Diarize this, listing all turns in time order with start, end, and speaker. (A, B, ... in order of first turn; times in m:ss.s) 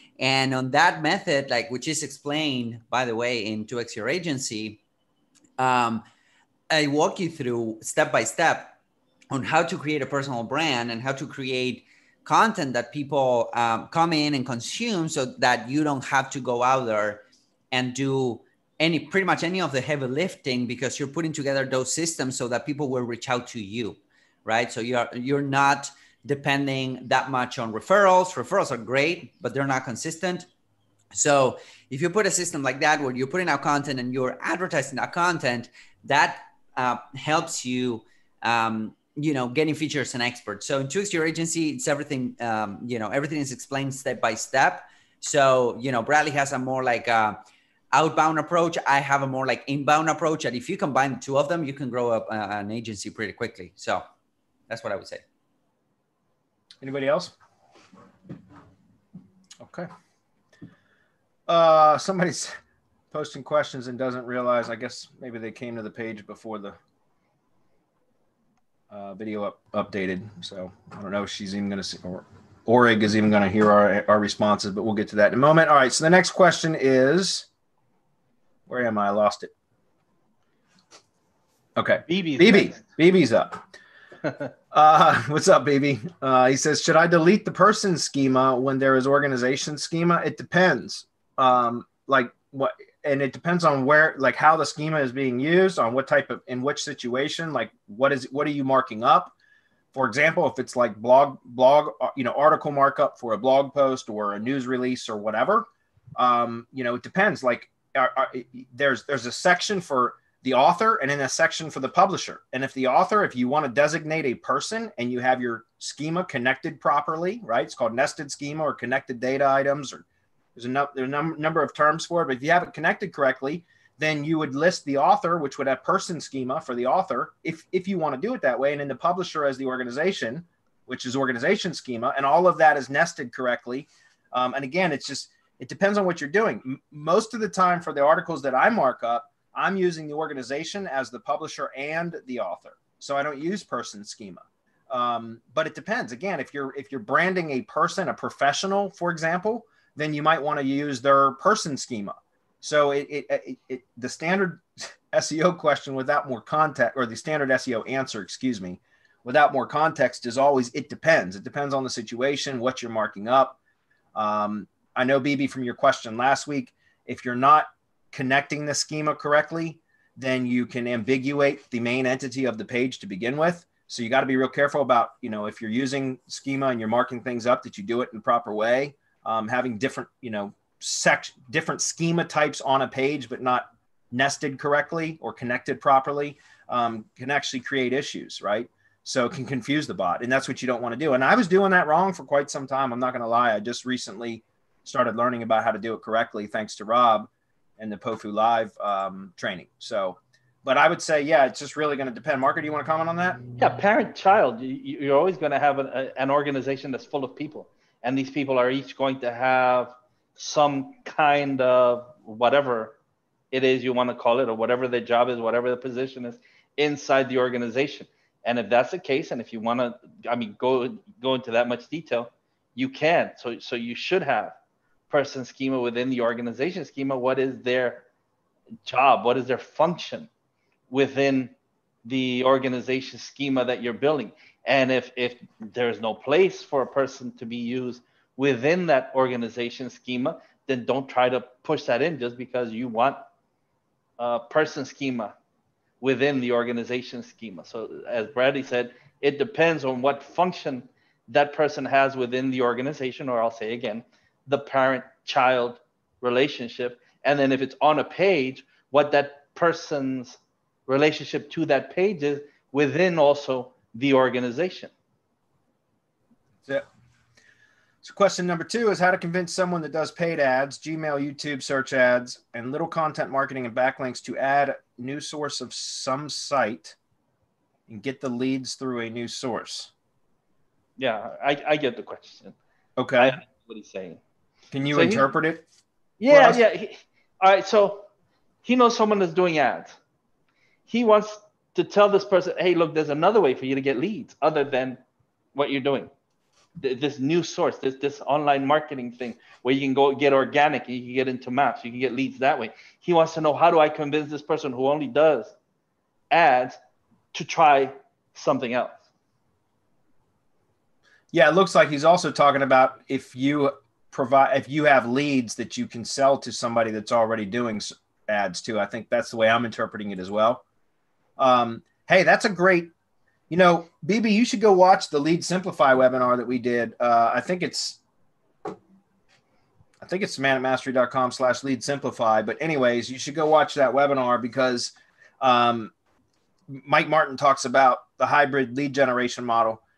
0:00.2-0:04.8 A
0:05.6-0:06.0 A
0:06.7-0:08.8 A
0:09.3-0:30.5 A
0:31.1-0:47.4 A
0:47.9-0:54.0 A
0:54.7-0:55.2 A
0:56.8-0:57.3 B
0:59.6-0:59.9 B
1:01.5-1:02.5 B
1:03.1-1:06.8 B
1:08.9-1:17.5 B
1:18.7-1:19.5 B
1:21.8-1:23.6 B
1:22.1-1:22.8 C
1:24.7-1:39.3 B
1:39.9-2:00.0 B
2:00.5-2:43.6 B
2:44.1-3:23.4 B
3:23.6-3:33.0 C
3:33.5-3:44.5 C
3:45.1-3:48.0 C
3:48.8-3:50.3 C
3:50.9-3:51.5 C
3:52.0-4:03.2 C
4:04.2-4:05.3 C
4:06.0-4:24.9 C
4:28.0-4:37.0 B
4:37.9-4:39.9 B
4:41.0-4:42.5 C
4:43.0-4:43.4 B
4:43.2-4:44.2 C
4:44.7-4:45.6 B
4:44.9-4:45.3 C
4:46.2-4:48.1 C
4:46.3-4:46.6 B
4:48.6-4:50.0 C
4:50.9-4:55.0 C
4:55.5-4:56.1 C
4:56.8-5:05.5 C
5:06.3-5:06.8 C
5:07.3-5:09.0 C
5:11.3-5:20.6 B
5:21.4-5:22.9 B
5:23.5-5:28.0 B
5:30.0-5:35.9 B
5:36.7-5:39.8 B